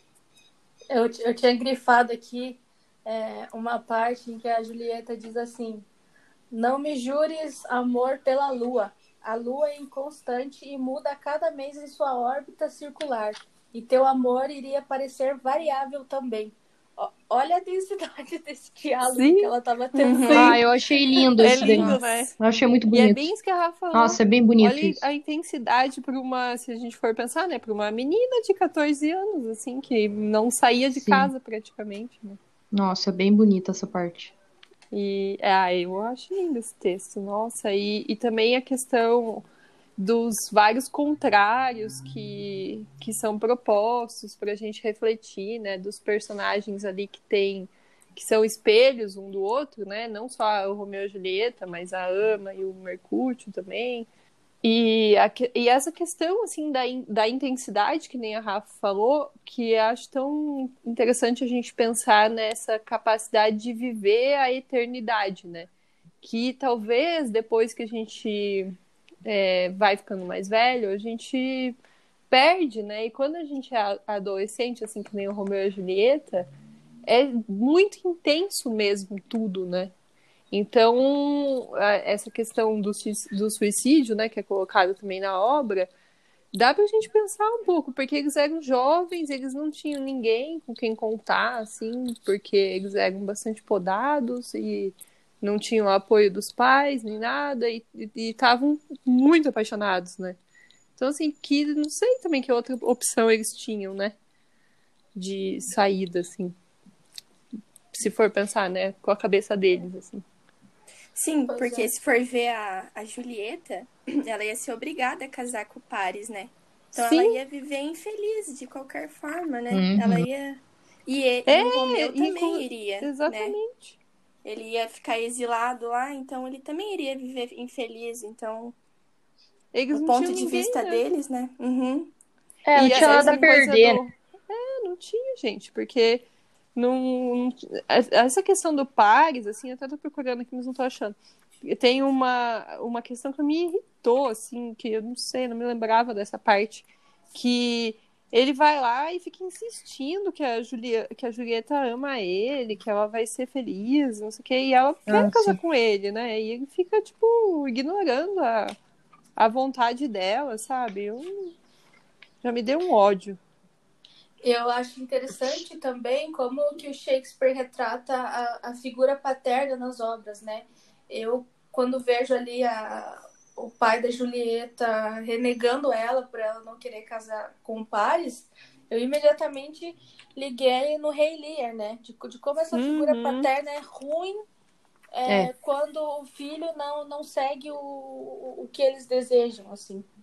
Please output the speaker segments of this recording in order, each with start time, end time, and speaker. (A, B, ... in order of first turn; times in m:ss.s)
0:00.9-0:05.8 A
0:06.5-0:20.6 A
0:19.0-0:19.5 B
0:19.9-0:20.6 C
0:20.3-0:23.2 D
0:21.4-0:22.3 B
0:21.4-0:22.0 A
0:22.9-0:32.4 B
0:23.9-0:25.0 D
0:31.0-0:31.3 D
0:32.7-0:34.3 D
0:34.9-0:39.4 B
0:40.0-0:54.1 B
0:54.6-1:05.7 B
1:06.2-1:08.7 B
1:09.2-1:11.8 B
1:12.3-1:16.5 B
1:17.1-1:19.9 B
1:20.5-1:25.9 B
1:26.5-1:40.4 B
1:41.0-1:44.1 B
1:45.1-1:46.6 B
1:47.9-1:50.2 B
1:51.1-2:03.5 C
1:51.5-1:51.9 A
1:56.9-1:57.4 B
1:59.7-2:00.2 D
2:01.5-2:04.0 B
2:04.4-2:08.7 C
2:09.7-2:11.0 B
2:09.9-2:12.1 C
2:12.6-2:14.0 D
2:12.7-2:16.2 B
2:12.8-2:13.5 C
2:16.7-2:38.7 B
2:35.1-2:35.6 D
2:39.4-2:41.5 B
2:42.4-2:43.4 B
2:44.4-3:04.4 A
3:02.7-3:03.5 B
3:05.1-3:10.0 A